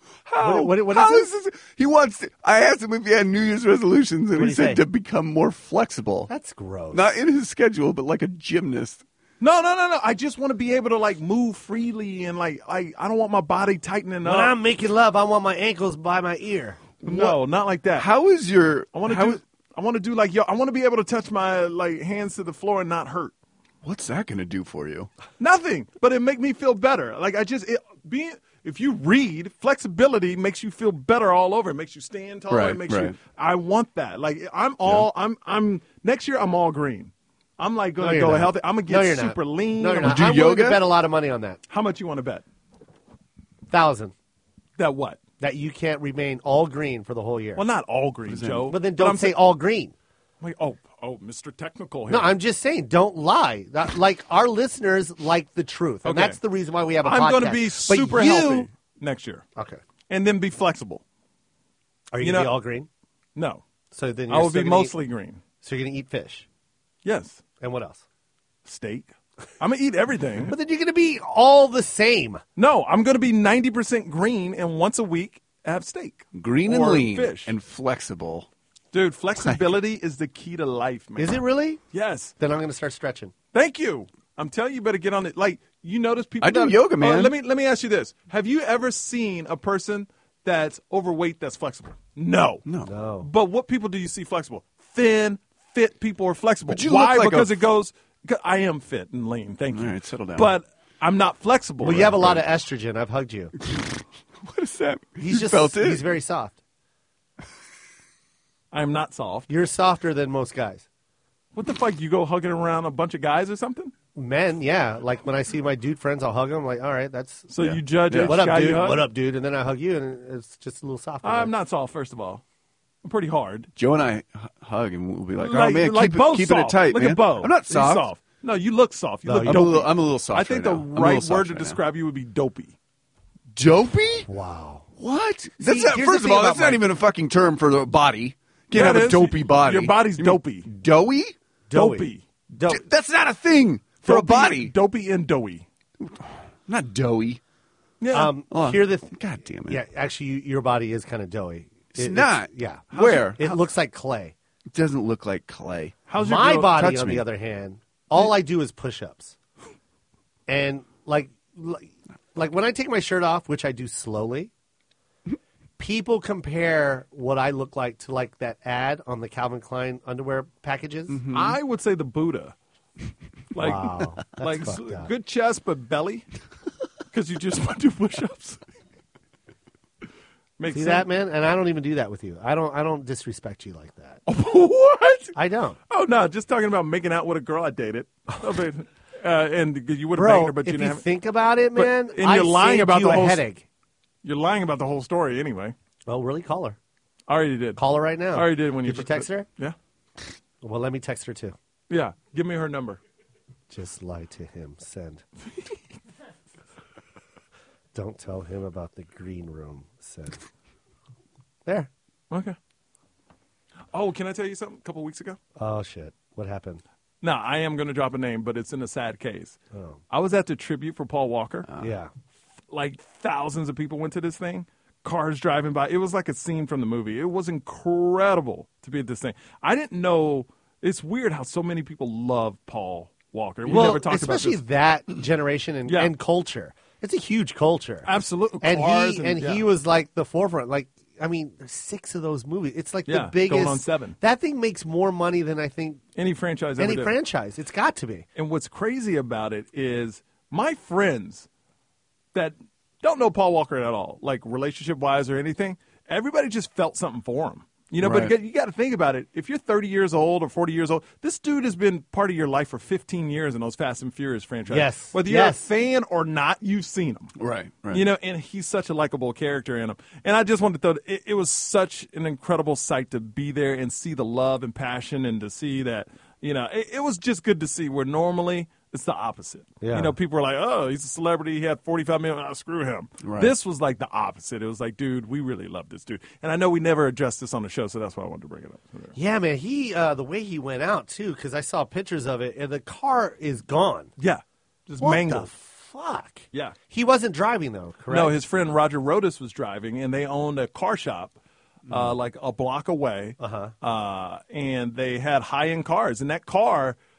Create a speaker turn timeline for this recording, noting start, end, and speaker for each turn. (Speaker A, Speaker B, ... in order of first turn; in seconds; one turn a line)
Speaker A: 0.3-6.3
Speaker B: 0.4-1.3
Speaker B: 4.3-4.8
Speaker B: 6.3-7.2
Speaker A: 6.9-9.0
Speaker C: 9.4-14.6
Speaker B: 14.2-16.8
Speaker A: 17.0-17.4
Speaker C: 17.0-18.1
Speaker A: 17.9-19.4
Speaker C: 18.9-23.3
Speaker A: 23.8-25.1
Speaker C: 25.4-40.2
Speaker A: 32.5-33.2
Speaker B: 38.0-41.6
Speaker A: 40.0-40.8
Speaker C: 41.7-42.4
Speaker B: 43.7-44.1
Speaker C: 44.8-45.2
Speaker B: 45.4-47.6
Speaker C: 47.6-49.4
Speaker A: 48.3-48.7
Speaker B: 48.7-49.9
Speaker C: 50.4-52.4
Speaker B: 52.1-58.7
Speaker C: 56.0-56.4
Speaker C: 57.0-59.4
Speaker B: 59.6-59.8
Speaker C: 60.1-61.0
Speaker B: 62.1-62.9
Speaker C: 62.2-62.6
Speaker C: 63.4-63.6
Speaker B: 63.9-65.0
Speaker C: 64.3-65.4
Speaker B: 65.6-66.5
Speaker C: 67.0-67.4
Speaker B: 67.6-68.0
Speaker C: 68.6-70.5
Speaker B: 70.5-72.4
Speaker C: 72.6-77.5
Speaker A: 76.3-78.5
Speaker C: 78.9-82.3
Speaker B: 81.2-81.8
Speaker B: 82.4-83.3
Speaker C: 83.5-92.7
Speaker A: 86.4-87.4
Speaker A: 92.6-92.9
Speaker B: 92.8-93.3
Speaker C: 93.2-102.3
Speaker A: 96.7-97.6
Speaker A: 99.7-100.5
Speaker B: 101.8-103.5
Speaker A: 101.9-102.4
Speaker A: 103.6-106.0
Speaker B: 105.2-106.6
Speaker C: 108.7-109.5
Speaker B: 109.5-110.8
Speaker C: 111.5-113.9
Speaker B: 114.1-117.5
Speaker C: 117.5-119.1
Speaker A: 117.6-118.3
Speaker B: 118.2-121.5
Speaker C: 121.2-122.4
Speaker C: 123.0-123.7
Speaker A: 123.8-128.1
Speaker C: 125.4-132.7
Speaker B: 129.2-129.8
Speaker A: 129.4-131.8
Speaker A: 133.5-134.3
Speaker B: 134.3-134.9
Speaker A: 135.0-141.3
Speaker B: 135.6-136.8
Speaker C: 138.7-140.7
Speaker B: 141.7-142.8
Speaker C: 141.7-142.2
Speaker A: 142.7-144.7
Speaker C: 144.0-145.6
Speaker A: 146.0-147.4
Speaker C: 148.0-148.3
Speaker B: 148.1-149.1
Speaker A: 148.5-149.8
Speaker B: 149.7-154.3
Speaker A: 151.9-153.4
Speaker C: 152.9-153.6
Speaker A: 154.7-156.0
Speaker C: 156.1-156.7
Speaker B: 156.2-159.3
Speaker A: 156.7-157.2
Speaker B: 160.5-164.5
Speaker B: 165.8-171.2
Speaker A: 171.1-171.6
Speaker C: 171.3-172.6
Speaker C: 173.5-176.2
Speaker B: 173.6-175.1
Speaker C: 177.1-178.6
Speaker C: 180.6-181.1
Speaker B: 180.7-184.2
Speaker C: 184.3-185.3
Speaker B: 185.3-185.8
Speaker C: 185.9-191.1
Speaker B: 190.1-193.6
Speaker C: 191.8-193.4
Speaker C: 194.2-195.8
Speaker B: 196.1-196.8
Speaker C: 197.3-197.8
Speaker B: 197.8-199.5
Speaker C: 198.3-199.8
Speaker B: 200.6-201.6
Speaker C: 201.9-203.0
Speaker B: 203.7-205.2
Speaker B: 207.9-210.4
Speaker C: 212.3-212.6
Speaker C: 213.9-215.4
Speaker B: 215.6-216.8
Speaker C: 217.2-219.6
Speaker B: 219.7-220.0
Speaker C: 220.1-221.7
Speaker A: 221.7-221.9
Speaker B: 221.8-222.1
Speaker C: 222.7-234.6
Speaker B: 233.7-238.1
Speaker C: 235.9-236.1
Speaker C: 238.1-239.7
Speaker B: 238.6-246.0
Speaker C: 243.1-244.2
Speaker C: 246.2-247.1
Speaker B: 246.8-248.2
Speaker C: 248.4-251.5
Speaker C: 252.3-267.3
Speaker A: 258.0-258.3
Speaker B: 264.7-265.6
Speaker A: 267.4-268.0
Speaker C: 267.9-289.1
Speaker B: 279.8-280.1
Speaker A: 283.2-283.5
Speaker B: 289.1-294.1
Speaker C: 294.2-295.5
Speaker B: 295.0-298.4
Speaker C: 298.1-301.4
Speaker C: 301.9-307.0
Speaker B: 303.4-303.7